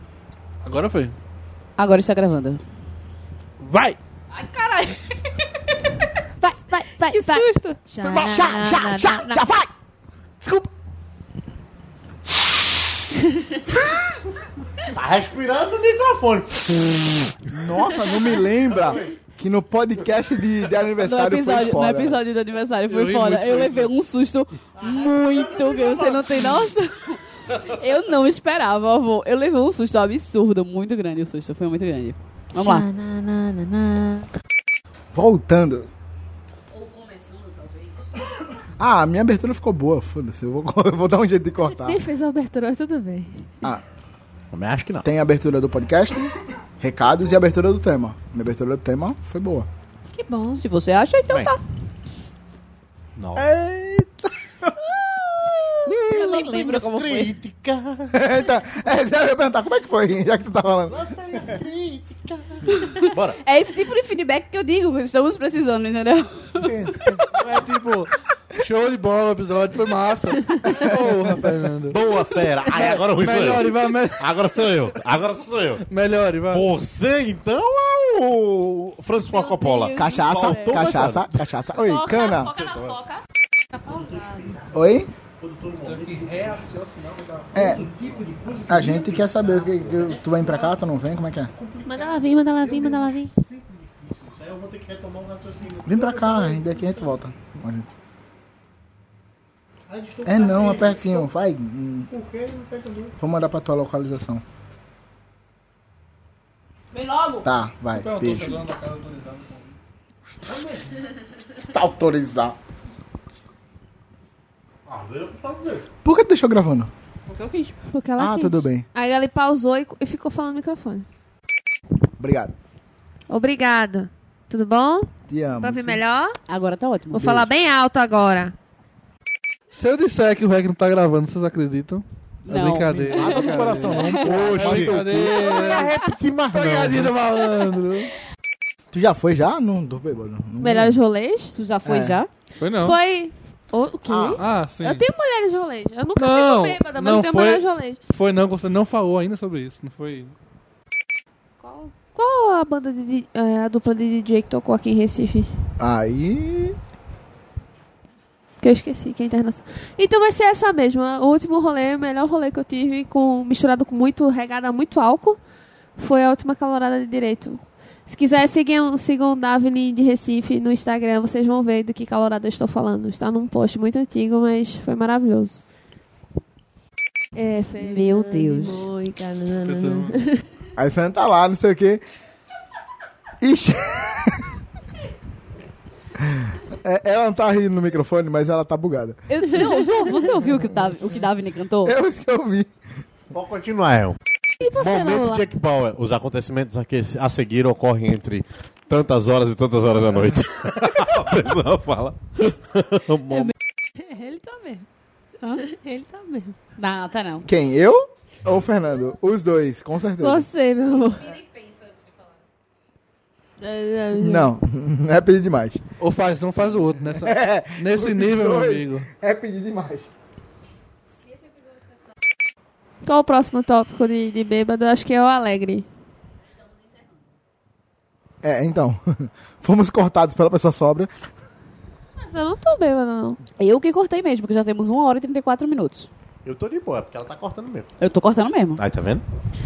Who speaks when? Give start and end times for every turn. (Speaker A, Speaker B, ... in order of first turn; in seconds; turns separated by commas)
Speaker A: 0.6-1.1, Speaker B: 1.8-2.6, Speaker A: 3.6-4.0, Speaker B: 4.3-5.1, Speaker C: 6.4-9.4, Speaker B: 7.1-7.8, Speaker D: 8.0-9.7, Speaker A: 10.4-10.7, Speaker E: 14.9-17.5, Speaker D: 17.5-22.2, Speaker E: 18.1-19.2, Speaker B: 21.0-32.9, Speaker A: 22.9-23.9, Speaker E: 24.8-26.7, Speaker C: 32.5-34.3, Speaker D: 35.1-35.9, Speaker D: 38.8-42.0, Speaker C: 41.6-43.5, Speaker E: 44.5-45.1, Speaker D: 45.0-49.7, Speaker C: 50.2-50.5, Speaker B: 50.3-51.6, Speaker E: 53.2-53.5, Speaker D: 53.4-54.7, Speaker B: 55.9-57.3, Speaker E: 55.9-58.2, Speaker D: 58.1-61.6, Speaker E: 60.9-63.4, Speaker B: 62.8-66.7, Speaker E: 66.6-67.3, Speaker A: 67.3-72.0, Speaker E: 71.9-75.8, Speaker A: 72.8-74.6, Speaker A: 75.9-76.7, Speaker E: 76.5-81.4, Speaker B: 79.3-80.8, Speaker D: 79.9-82.6, Speaker C: 81.8-82.7, Speaker E: 82.4-83.0, Speaker C: 83.8-84.4, Speaker E: 83.9-84.8, Speaker D: 84.7-85.1, Speaker E: 85.4-86.5, Speaker A: 85.8-87.5, Speaker D: 87.5-87.9, Speaker E: 87.5-90.7, Speaker D: 88.7-91.5, Speaker E: 91.5-97.2, Speaker C: 91.9-93.3, Speaker D: 95.8-97.9, Speaker E: 99.9-101.3, Speaker D: 100.2-102.1, Speaker E: 102.1-103.1, Speaker D: 103.2-104.4, Speaker B: 106.9-107.5, Speaker D: 107.4-108.6, Speaker A: 107.9-109.8, Speaker E: 110.5-110.8, Speaker D: 111.7-112.6, Speaker E: 114.9-115.9, Speaker D: 116.0-116.9, Speaker B: 117.3-117.7, Speaker C: 117.9-121.1, Speaker D: 118.2-118.9, Speaker D: 122.2-122.5, Speaker C: 123.3-126.4, Speaker D: 125.3-126.0, Speaker B: 126.5-127.5, Speaker C: 127.1-128.5, Speaker A: 129.7-138.1, Speaker B: 132.4-134.3, Speaker E: 133.1-137.1, Speaker D: 134.3-135.2, Speaker D: 138.9-141.0, Speaker C: 140.6-141.5, Speaker B: 141.6-142.3, Speaker D: 141.8-142.2, Speaker A: 142.6-143.0, Speaker C: 142.8-148.0, Speaker D: 144.1-144.4, Speaker A: 144.4-145.1, Speaker A: 146.2-150.3, Speaker C: 151.6-155.5, Speaker D: 155.8-156.8, Speaker C: 158.6-165.4, Speaker C: 166.0-175.6, Speaker C: 177.4-180.4, Speaker B: 177.8-178.9, Speaker A: 179.6-180.2, Speaker D: 180.8-182.0, Speaker D: 183.4-184.5, Speaker D: 186.2-189.2, Speaker B: 189.3-192.0, Speaker D: 191.8-192.7, Speaker E: 193.3-194.2, Speaker C: 194.6-195.4, Speaker E: 194.7-203.5, Speaker C: 204.0-204.8, Speaker C: 205.6-206.6, Speaker B: 206.8-207.5, Speaker D: 207.4-210.5, Speaker C: 210.2-211.5, Speaker C: 213.6-214.5, Speaker D: 214.2-215.8, Speaker A: 216.0-219.1, Speaker D: 217.1-220.1, Speaker C: 223.0-225.9, Speaker D: 228.4-231.1, Speaker C: 232.2-233.4, Speaker B: 233.6-236.1, Speaker E: 236.4-237.9, Speaker B: 238.0-238.8, Speaker E: 238.8-239.2